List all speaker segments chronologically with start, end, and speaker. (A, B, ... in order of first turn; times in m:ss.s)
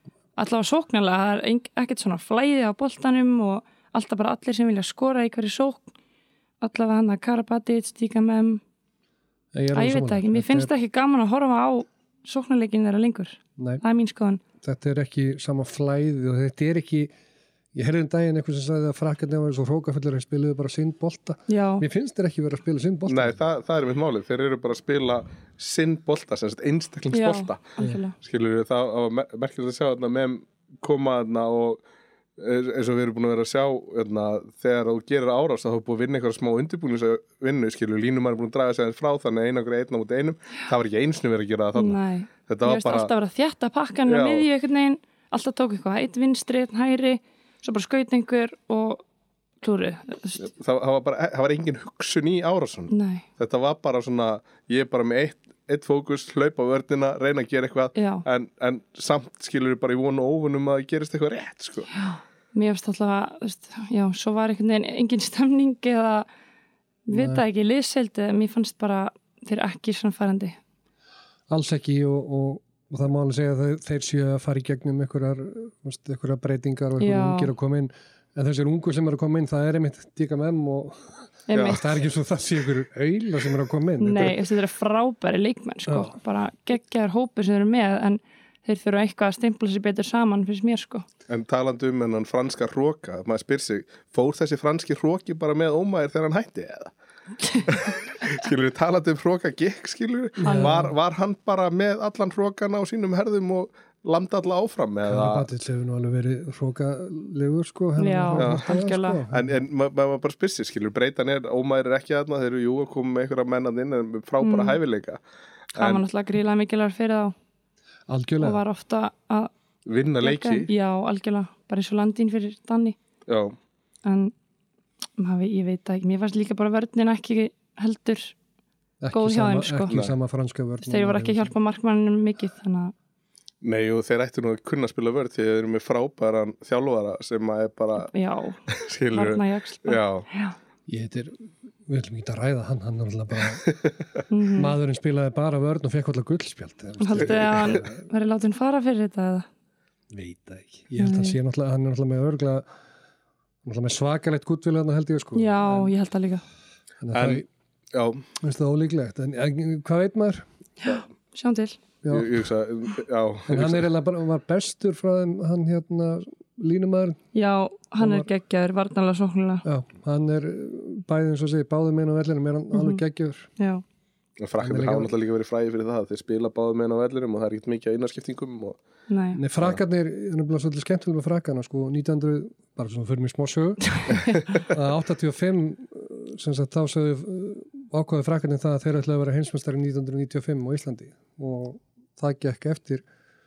0:00.4-0:05.9 A
0:06.6-0:08.6 A
0:09.5-0:10.7 B
0:09.7-0:14.4 A
0:13.6-0:13.8 B
0:14.6-0:17.1 B
0:17.7-0:23.4 B
0:21.5-0:21.8 A
0:23.1-0:31.8 C
0:27.1-0:28.1 A
0:32.4-0:43.1 C
0:41.7-0:49.0 A
0:44.1-0:44.5 C
0:49.6-0:50.5 A
0:50.4-1:01.9 C
0:52.9-0:53.2 A
0:57.9-0:58.2 A
1:01.9-1:06.3 A
1:07.1-1:10.6 A
1:07.1-1:07.4 B
1:11.5-1:24.4 B
1:17.0-1:17.5 A
1:21.5-1:21.9 A
1:21.5-1:21.8 C
1:24.0-1:31.0 A
1:25.9-1:26.2 B
1:31.3-1:36.9 C
1:37.4-1:37.9 A
1:37.6-1:45.5 C
1:40.4-1:40.9 B
1:40.4-1:40.9 A
1:45.0-1:49.6 B
1:48.0-1:49.2 A
1:48.4-1:48.7 C
1:49.3-1:55.2 C
1:54.4-1:54.8 A
1:55.7-1:56.0 C
1:55.8-1:57.3 A
1:58.1-1:58.6 B
1:58.4-1:59.5 A
1:59.8-2:00.7 C
2:00.2-2:03.0 A
2:03.3-2:03.6 C
2:04.0-2:04.3 A
2:05.2-2:08.3 A
2:09.0-2:11.5 B
2:09.1-2:10.0 A
2:09.9-2:10.1 C
2:10.8-2:12.9 A
2:13.6-2:18.1 C
2:18.0-2:20.6 A
2:18.7-2:20.2 C
2:20.9-2:23.7 B
2:23.6-2:23.9 C
2:24.3-2:24.7 A
2:24.5-2:28.0 B
2:27.0-2:29.5 A
2:30.1-2:32.6 B
2:31.0-2:31.4 A
2:33.6-2:35.9 B
2:35.3-2:36.4 A
2:37.0-2:37.4 B
2:37.1-2:38.2 C
2:38.4-2:40.4 B
2:40.8-2:41.8 A
2:42.0-2:42.4 B
2:42.1-2:43.9 C
2:43.5-2:47.2 B
2:47.3-2:49.6 A
2:48.0-2:48.3 B
2:49.6-2:53.5 B
2:52.7-2:53.0 A
2:54.4-2:58.8 C
2:54.6-2:55.1 B
2:59.1-2:59.4 A
2:59.3-3:13.0 B
3:03.9-3:04.5 A